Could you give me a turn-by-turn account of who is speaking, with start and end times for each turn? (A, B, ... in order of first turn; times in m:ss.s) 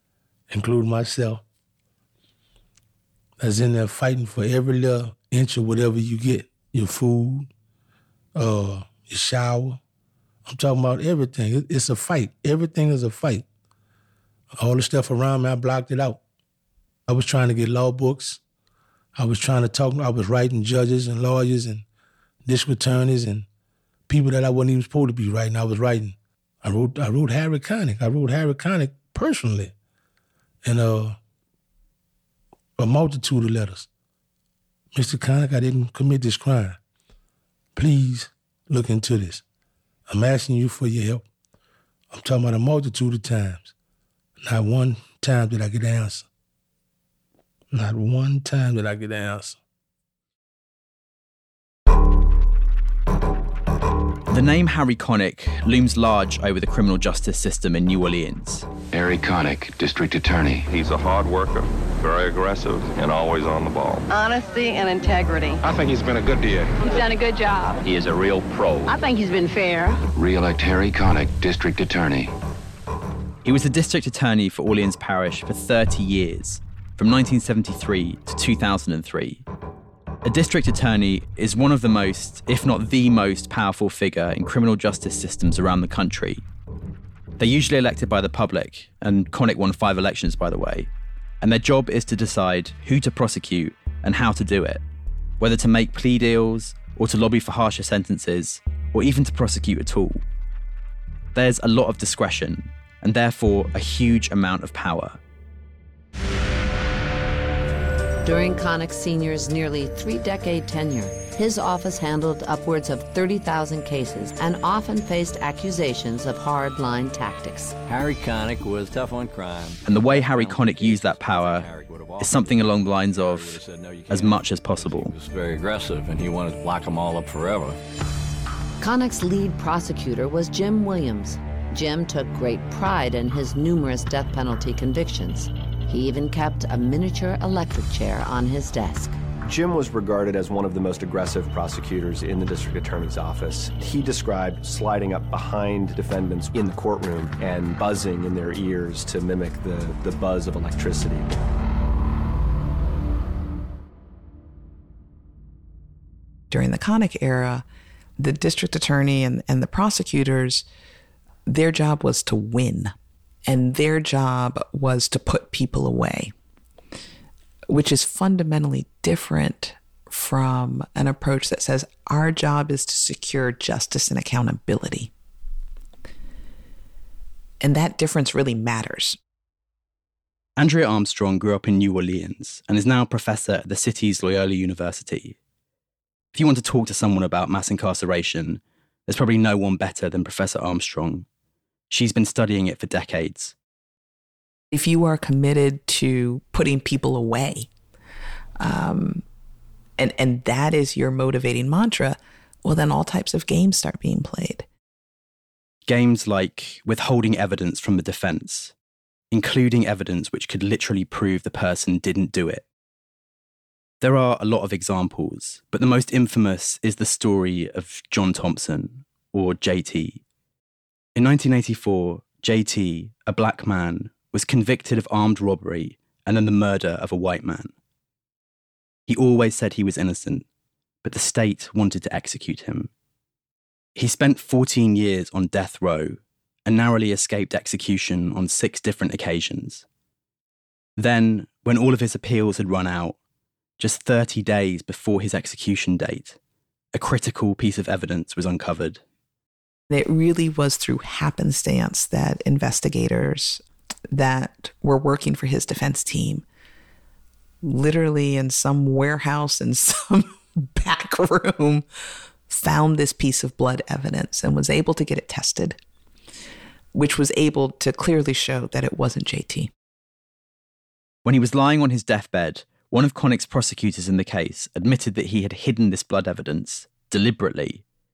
0:00.5-0:01.4 A
0:03.4-0:07.5 A
0:08.4-0:09.8 A
0:10.5-0:13.5 A
0:14.6-0:16.2 A
0:17.1-0:18.4 A
0:19.2-0:21.8 A
0:22.4-0:23.5 A
0:24.1-0:29.7 A
0:30.6-0:31.2 A
0:32.8-0:33.9 A
0:34.9-0:36.8 A
0:37.8-0:39.4 A
0:40.1-0:41.3 A
0:42.1-0:43.7 A
0:44.4-0:46.3 A
0:47.7-0:49.6 A
0:54.3-0:58.7 B
0:58.9-1:00.7 C
1:00.7-1:04.1 D
1:04.1-1:05.6 E
1:05.6-1:07.0 D
1:06.8-1:07.8 E
1:07.9-1:08.8 C
1:08.9-1:10.0 E
1:10.2-1:12.3 C
1:13.4-1:19.4 B
1:20.2-1:26.4 B
1:27.4-1:34.8 B
1:35.4-1:40.2 B
1:41.3-1:45.2 B
1:48.2-1:57.8 F
1:57.8-2:07.8 G
1:59.8-2:05.1 B
2:08.8-2:19.2 F
2:19.5-2:31.3 H
2:36.5-2:37.6 I
2:38.2-2:40.6 I
2:41.5-2:42.9 I
2:43.5-2:46.3 I
2:47.7-2:55.1 I
2:57.6-2:59.2 I
3:00.6-3:05.4 B
3:06.3-3:11.3 B
3:11.9-3:13.6 B
3:14.7-3:17.7 I
3:18.6-3:19.2 I
3:20.0-3:24.7 I
3:25.9-3:28.7 B
3:29.3-3:32.6 B
3:34.0-3:40.2 B
3:41.2-3:47.7 B
3:49.1-3:50.5 B
3:51.0-3:52.9 B
3:54.0-3:59.8 B
4:01.0-4:03.2 B
4:03.8-4:06.4 B
4:06.9-4:09.0 B
4:09.9-4:16.4 I
4:17.6-4:21.8 I
4:22.5-4:25.8 I
4:26.9-4:29.7 I
4:31.2-4:37.8 B